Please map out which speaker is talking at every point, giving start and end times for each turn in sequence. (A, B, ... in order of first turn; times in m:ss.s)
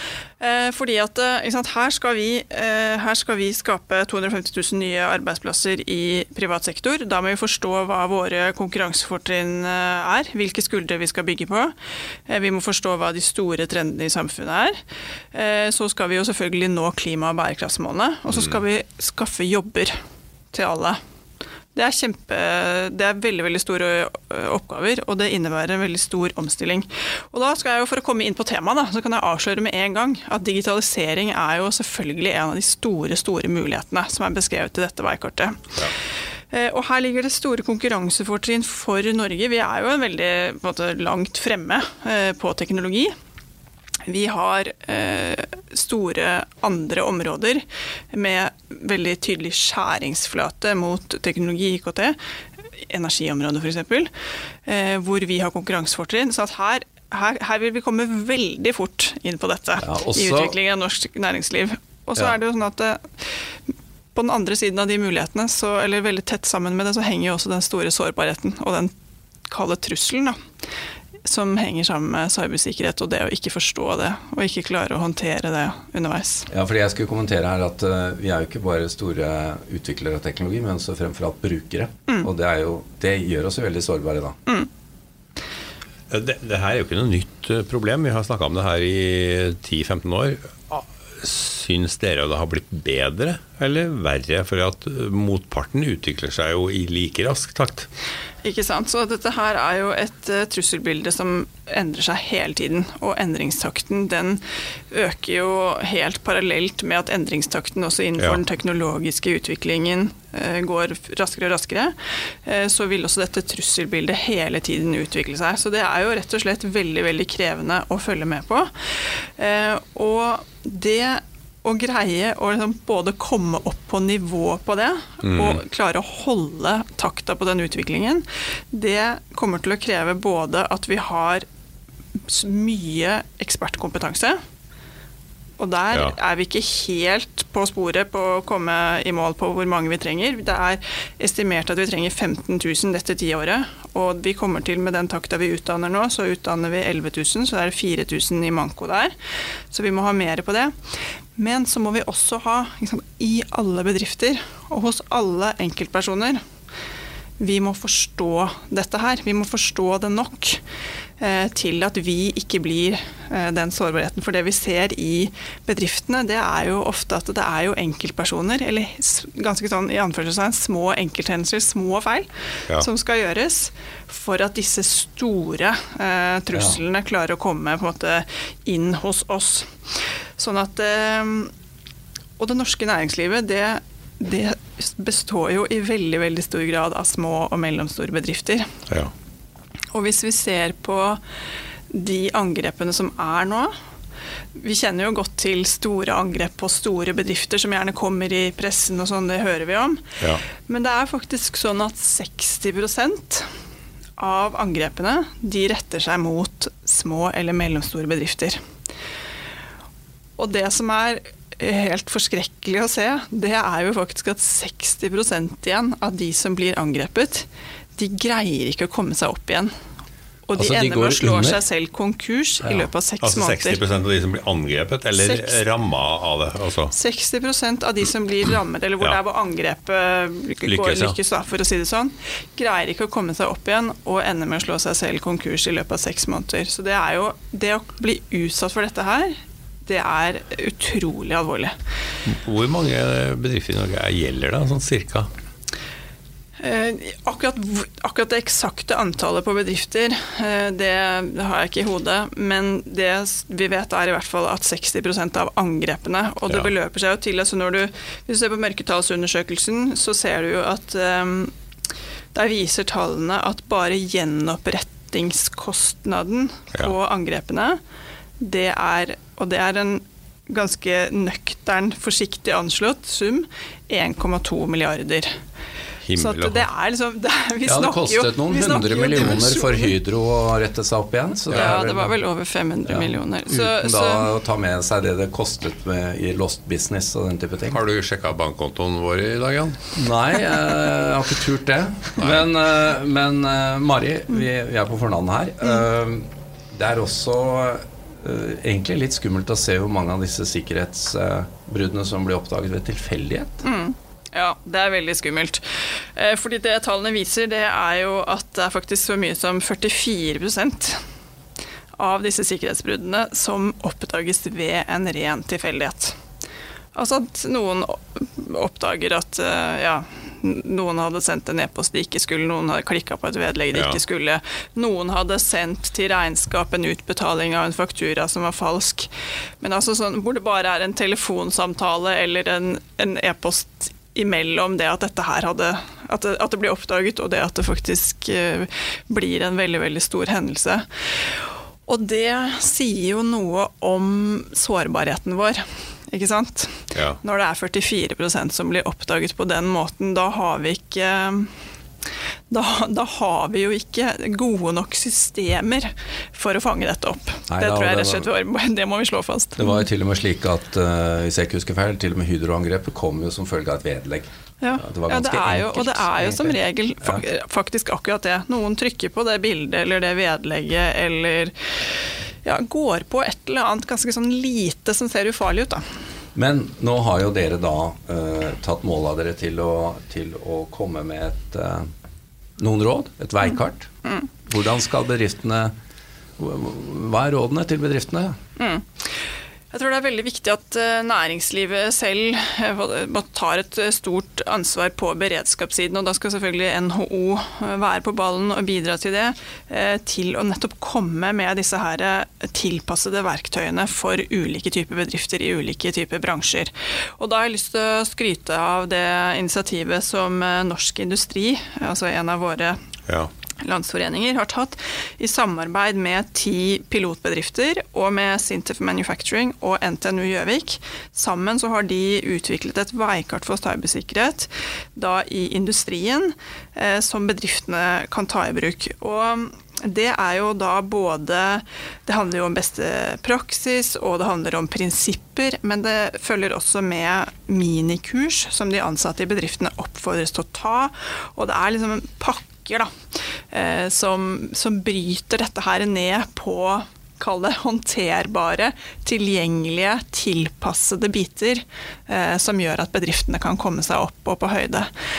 0:00.4-0:11.7 A
0:12.3-0:14.8 A
0:15.3-0:20.0 A
0:18.3-0:18.6 B
0:20.5-0:21.0 A
0:21.7-0:35.7 A
0:36.5-0:43.1 A
0:44.0-0:52.2 A
0:52.8-0:54.1 A
0:54.6-1:03.3 A
0:59.8-1:00.6 C
1:04.1-1:08.9 A
1:09.5-1:10.4 A
1:11.2-1:16.5 A
1:16.5-1:24.4 C
1:26.1-1:37.9 B
1:38.4-2:11.5 A
2:05.2-2:05.6 B
2:12.2-2:14.4 A
2:15.6-2:29.2 A
2:29.7-2:30.7 A
2:31.4-2:36.4 A
2:37.4-2:40.6 A
2:41.2-2:59.8 A
2:56.5-2:56.8 C
3:00.4-3:01.5 A
3:02.4-3:08.8 A
3:09.9-3:11.2 A
3:11.9-3:13.7 A
3:14.6-3:23.5 A
3:24.2-3:28.6 A
3:30.4-3:39.7 A
3:40.5-3:43.8 A
3:40.6-3:41.6 C
3:43.2-3:46.9 B
3:45.2-3:45.6 A
3:46.9-4:01.7 A
3:50.6-3:51.2 B
4:02.3-4:05.3 B
4:06.6-4:21.5 A
4:16.5-4:16.7 B
4:22.3-4:27.8 A
4:28.4-4:35.3 A
4:36.0-4:36.7 B
4:36.2-4:40.0 A
4:37.7-4:42.2 C
4:41.5-4:41.8 B
4:41.5-4:44.3 A
4:42.9-4:47.8 C
4:47.7-4:49.9 B
4:49.9-5:03.6 C
4:52.2-4:52.5 B
5:03.6-5:11.0 A
5:12.0-5:16.2 A
5:17.0-5:29.1 A
5:23.7-5:24.0 B
5:29.6-5:40.9 A
5:41.9-5:51.5 A
5:46.9-5:47.2 B
5:52.5-5:59.9 A
5:57.5-5:58.3 C
5:59.6-6:07.2 C
6:04.6-6:15.8 A
6:16.4-6:21.9 C
6:22.6-6:23.9 C
6:24.5-6:25.7 C
6:26.4-6:28.3 C
6:28.6-6:29.1 A
6:29.7-6:52.8 A
6:53.6-7:22.9 A
7:23.5-7:34.9 A